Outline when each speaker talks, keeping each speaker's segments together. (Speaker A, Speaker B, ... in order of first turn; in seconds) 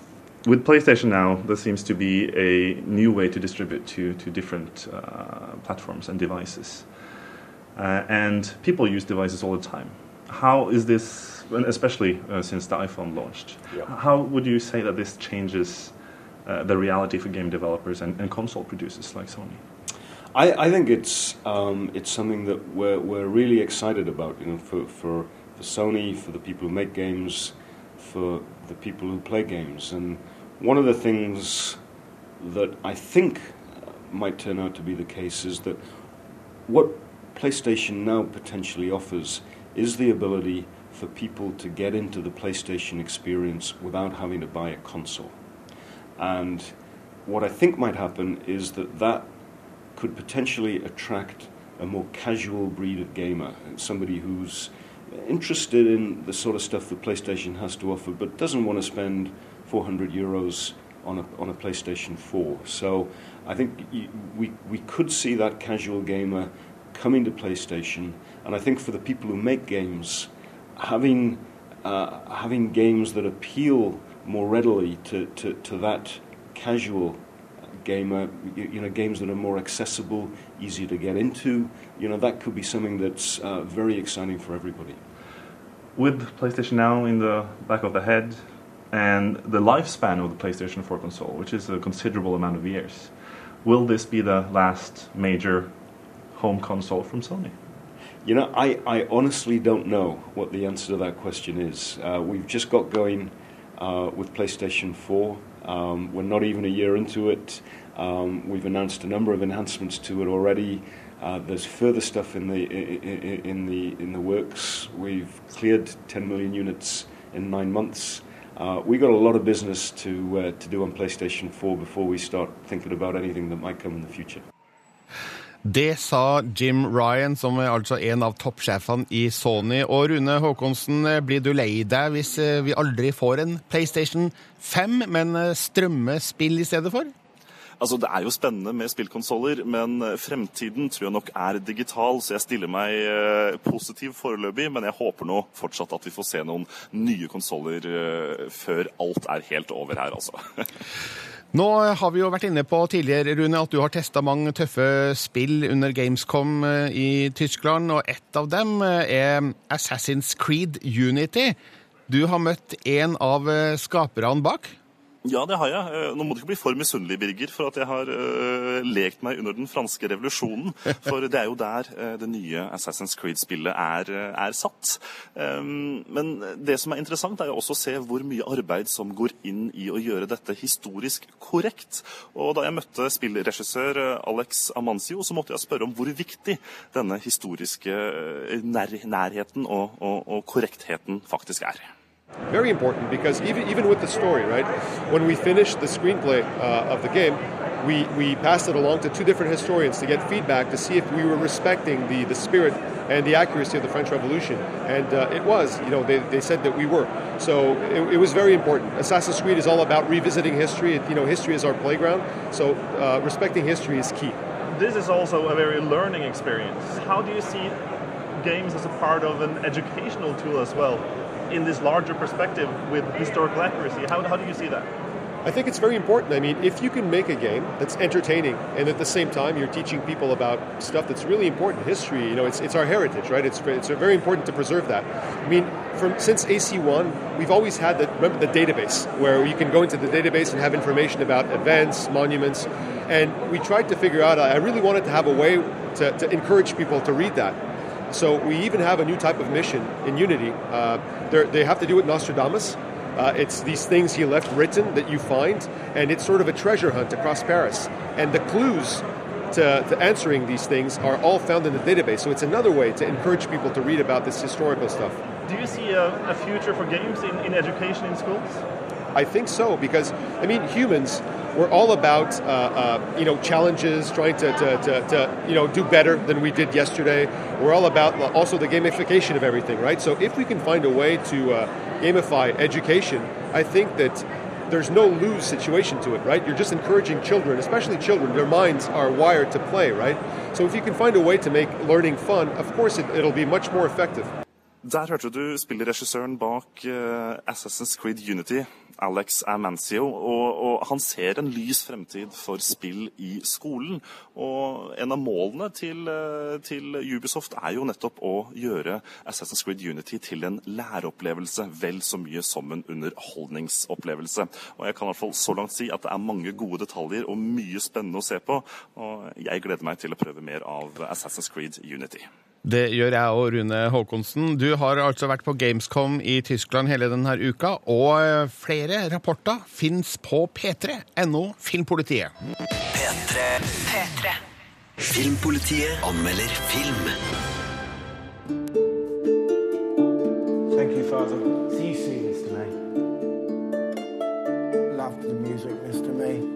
Speaker A: 0.4-6.9, 7.8-19.6, 86.0-95.7, 96.3-97.5, 214.7-217.8, 218.3-224.9, 265.4-268.6
Speaker B: 20.3-31.8, 32.4-35.8, 36.6-45.4, 46.2-49.3, 49.9-85.0, 98.2-124.4
Speaker C: 125.6-137.1, 151.5-161.6, 162.1-164.8, 322.6-332.3
Speaker D: 137.8-150.4, 165.2-191.9, 294.8-322.3
Speaker E: 192.5-214.4, 225.4-247.6, 248.1-265.2, 269.1-294.3
Speaker F: 332.9-333.6, 335.0-337.1
Speaker G: 340.7-342.7, 344.9-346.4